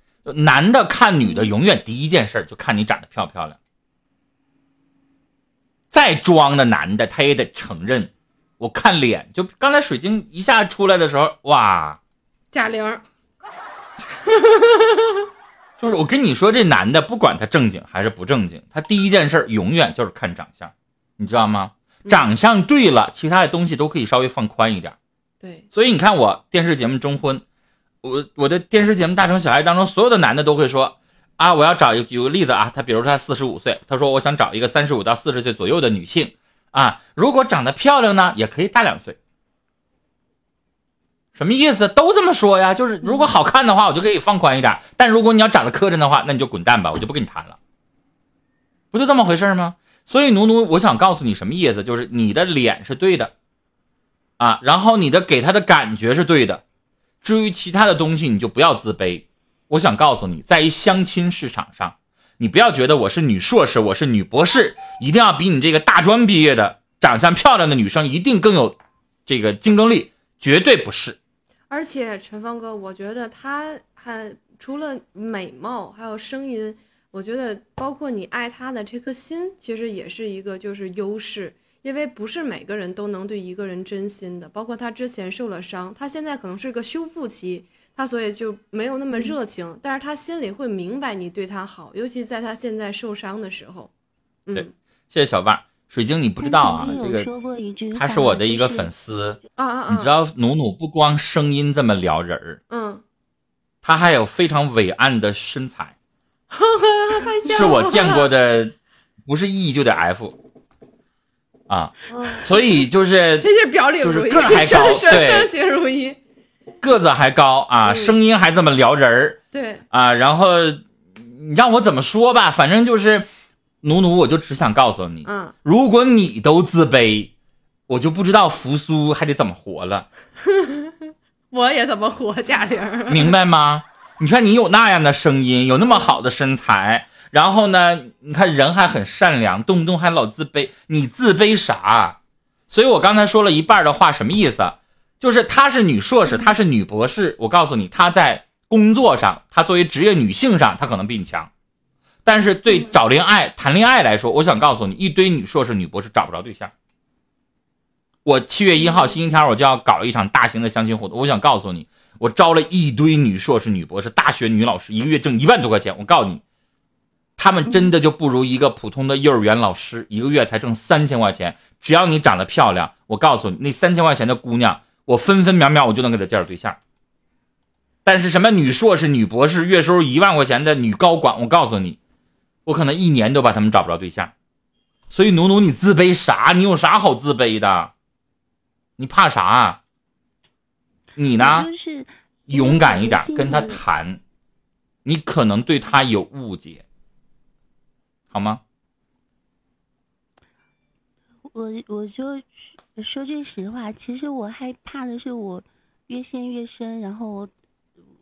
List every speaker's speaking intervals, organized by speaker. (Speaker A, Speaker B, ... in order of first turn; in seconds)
Speaker A: 0.2-3.6, 5.9-12.0, 15.8-25.0, 25.7-27.4, 28.0-39.2, 41.4-47.6, 48.9-53.3, 54.4-56.6, 57.2-71.2, 94.5-97.3, 97.9-102.6, 103.8-106.0, 107.5-108.8, 109.3-110.4, 111.7-113.5, 114.0-115.5, 116.8-119.4, 119.9-123.3, 123.8-127.3, 127.9-130.1, 133.1-142.2, 142.7-151.5, 152.2-156.7, 158.2-166.4, 167.4-176.8, 178.1-182.0, 182.7-184.3, 185.1-187.9, 189.0-189.8, 191.2-191.7, 192.5-194.2, 195.1-196.8, 198.3-198.6
Speaker B: 12.5-13.0, 14.2-15.3, 25.4-25.7, 71.7-93.9, 99.6-100.1, 102.7-103.0, 106.5-108.3, 112.1-112.8, 113.4-116.2, 117.8-118.2, 119.5-119.8, 125.2-125.5, 130.4-131.0, 131.5-133.4, 135.9-136.2, 158.8-159.1
Speaker C: 96.4-98.9, 167.7-167.9, 191.4-193.8, 201.4-207.5